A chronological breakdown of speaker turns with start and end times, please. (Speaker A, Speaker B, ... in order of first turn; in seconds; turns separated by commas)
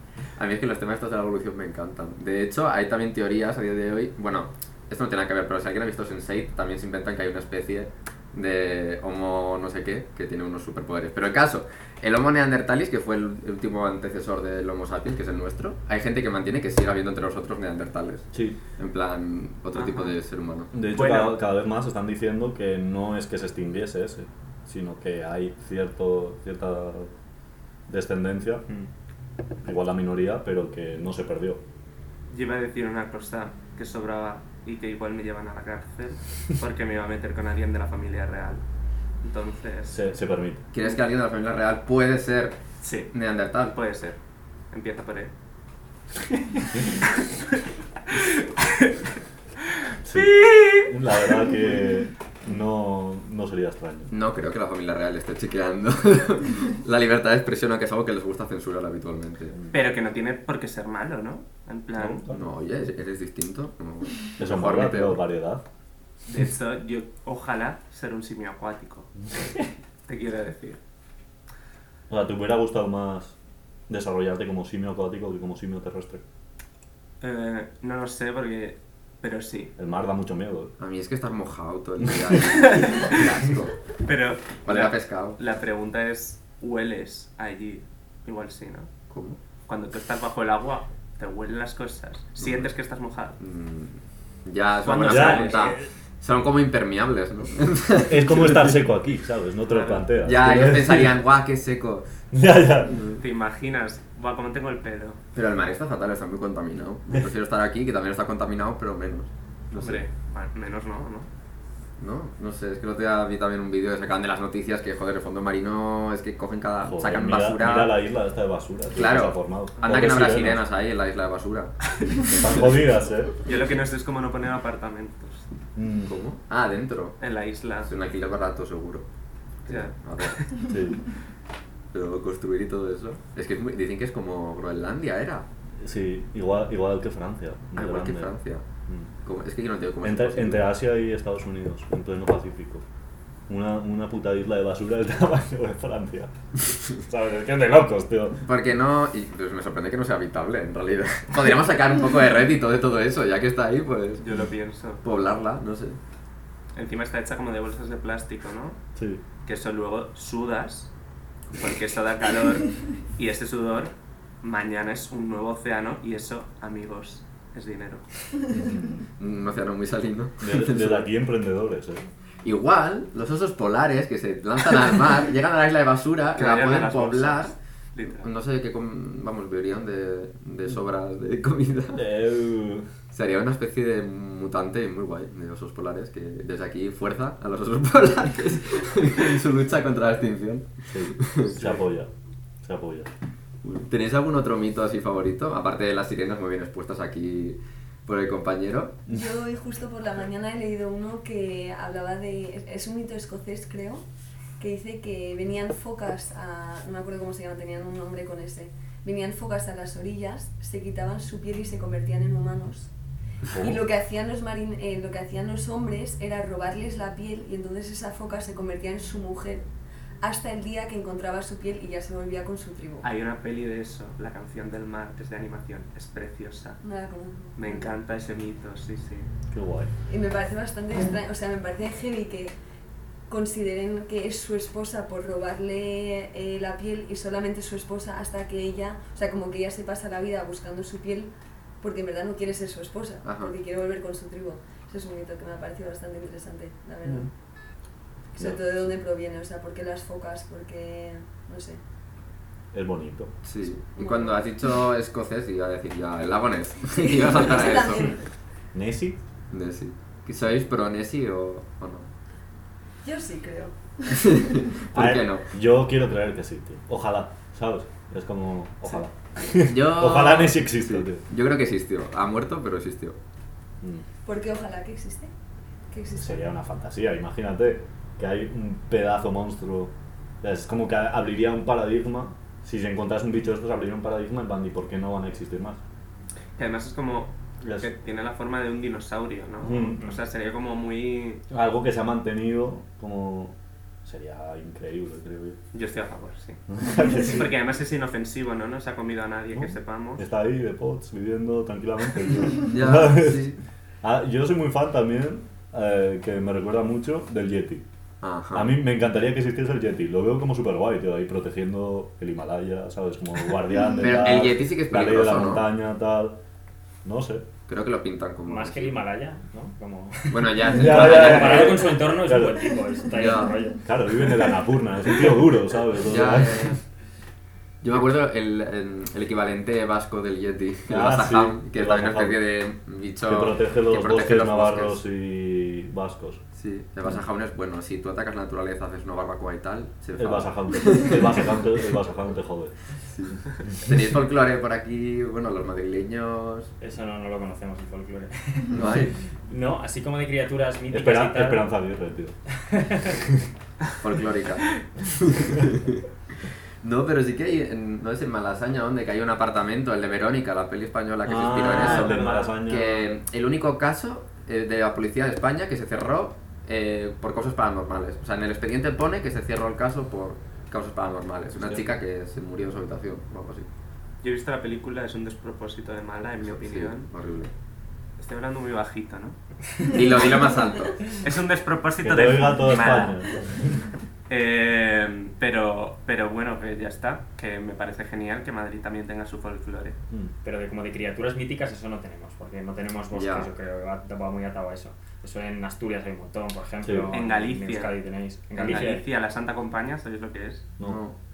Speaker A: 0.3-20.7, Speaker B: 18.3-18.6, Speaker C: 19.7-20.1, Speaker B: 20.7-27.1, Speaker C: 20.9-21.4, Speaker B: 27.9-28.6, Speaker B: 29.6-31.6, Speaker C: 32.3-38.6, Speaker C: 39.2-40.0, Speaker B: 39.9-40.6, Speaker A: 40.7-42.6, Speaker C: 42.8-43.1, Speaker A: 43.1-43.7, Speaker C: 43.6-44.2, Speaker C: 44.7-45.3, Speaker C: 46.8-49.1, Speaker C: 49.6-51.5, Speaker B: 50.0-54.1, Speaker A: 54.1-59.6, Speaker C: 59.7-62.3, Speaker B: 62.0-62.5, Speaker A: 62.3-65.2, Speaker B: 64.4-65.6, Speaker C: 66.3-69.1, Speaker C: 70.1-70.8, Speaker B: 72.1-73.3, Speaker B: 73.9-76.2, Speaker C: 77.2-79.7, Speaker B: 79.8-80.7, Speaker A: 80.8-83.8, Speaker C: 82.5-83.3, Speaker C: 84.0-88.9, Speaker A: 84.6-85.4, Speaker A: 89.1-89.4, Speaker C: 89.7-93.4, Speaker A: 92.4-92.7, Speaker A: 93.4-98.8, Speaker C: 94.8-95.8, Speaker B: 95.0-95.7, Speaker B: 98.0-101.2, Speaker C: 99.7-100.1, Speaker A: 100.2-102.1, Speaker B: 102.3-103.0, Speaker A: 102.9-103.2, Speaker C: 103.2-105.2, Speaker A: 105.3-110.0, Speaker C: 109.7-111.3, Speaker A: 112.0-117.9, Speaker B: 116.8-120.6, Speaker A: 118.9-122.8, Speaker B: 122.3-123.4, Speaker C: 123.4-125.5, Speaker B: 125.8-126.1, Speaker A: 126.0-127.2, Speaker C: 127.2-127.9, Speaker A: 127.8-129.0, Speaker A: 129.7-130.4, Speaker C: 129.7-130.7, Speaker B: 130.6-131.1, Speaker A: 131.9-135.5, Speaker B: 135.8-138.3, Speaker A: 137.7-138.6, Speaker A: 139.2-140.7, Speaker B: 140.0-142.8, Speaker B: 143.5-146.3, Speaker B: 146.9-148.4, Speaker A: 148.4-154.3, Speaker C: 154.2-155.0, Speaker A: 155.0-156.0, Speaker C: 156.7-158.8, Speaker B: 158.9-159.2, Speaker C: 159.4-160.9, Speaker C: 161.5-168.0, Speaker B: 168.5-169.0, Speaker A: 169.2-171.1, Speaker B: 170.4-172.1, Speaker A: 172.4-177.5, Speaker C: 176.3-178.3, Speaker A: 178.2-182.0, Speaker B: 181.9-182.9, Speaker A: 183.1-191.8, Speaker B: 190.9-192.1, Speaker B: 192.6-193.1, Speaker A: 193.6-199.0, Speaker D: 199.1-204.0, Speaker D: 204.6-212.9, Speaker D: 213.5-219.7, Speaker D: 220.2-223.1, Speaker C: 223.0-226.8, Speaker D: 226.8-227.6, Speaker C: 227.6-229.3, Speaker B: 229.5-229.9, Speaker D: 230.1-232.5, Speaker D: 233.3-247.3, Speaker A: 243.2-243.5, Speaker D: 248.3-251.8, Speaker B: 252.7-253.4, Speaker A: 253.4-258.1, Speaker D: 253.9-254.4, Speaker D: 256.9-258.2, Speaker B: 258.7-259.2, Speaker A: 259.5-262.1, Speaker D: 263.0-264.6, Speaker A: 264.1-265.5, Speaker B: 264.9-271.2, Speaker A: 269.6-273.2, Speaker D: 274.2-275.3, Speaker D: 275.9-276.4, Speaker B: 276.2-285.8, Speaker C: 286.6-291.4, Speaker B: 287.6-287.9, Speaker B: 289.6-290.0, Speaker B: 291.5-295.6, Speaker C: 295.7-300.2, Speaker B: 296.7-297.5, Speaker B: 299.5-307.8, Speaker A: 302.5-303.6, Speaker A: 308.2-308.8, Speaker B: 308.5-316.4, Speaker A: 313.9-315.6, Speaker B: 317.0-317.5, Speaker A: 317.7-319.0, Speaker E: 318.4-324.6, Speaker A: 320.3-322.1, Speaker B: 320.7-323.2, Speaker A: 323.1-323.6, Speaker B: 323.8-326.8, Speaker A: 326.0-326.8, Speaker A: 327.8-335.0, Speaker B: 330.9-332.4, Speaker B: 333.2-336.4, Speaker A: 336.5-341.5, Speaker B: 340.1-342.8, Speaker A: 343.0-346.7, Speaker E: 346.8-351.7, Speaker A: 348.7-349.1, Speaker B: 350.9-352.4, Speaker E: 352.6-353.2, Speaker A: 354.0-373.7, Speaker B: 361.2-363.1, Speaker C: 361.6-362.5, Speaker B: 371.5-371.9, Speaker C: 374.2-377.1, Speaker A: 376.4-377.5, Speaker C: 378.2-379.9, Speaker A: 379.8-381.1, Speaker C: 381.1-383.2, Speaker B: 382.0-383.9, Speaker C: 384.3-390.0, Speaker E: 390.4-399.0, Speaker A: 393.1-393.5, Speaker B: 396.8-397.1, Speaker C: 397.1-398.0, Speaker C: 398.6-400.7, Speaker A: 400.8-401.1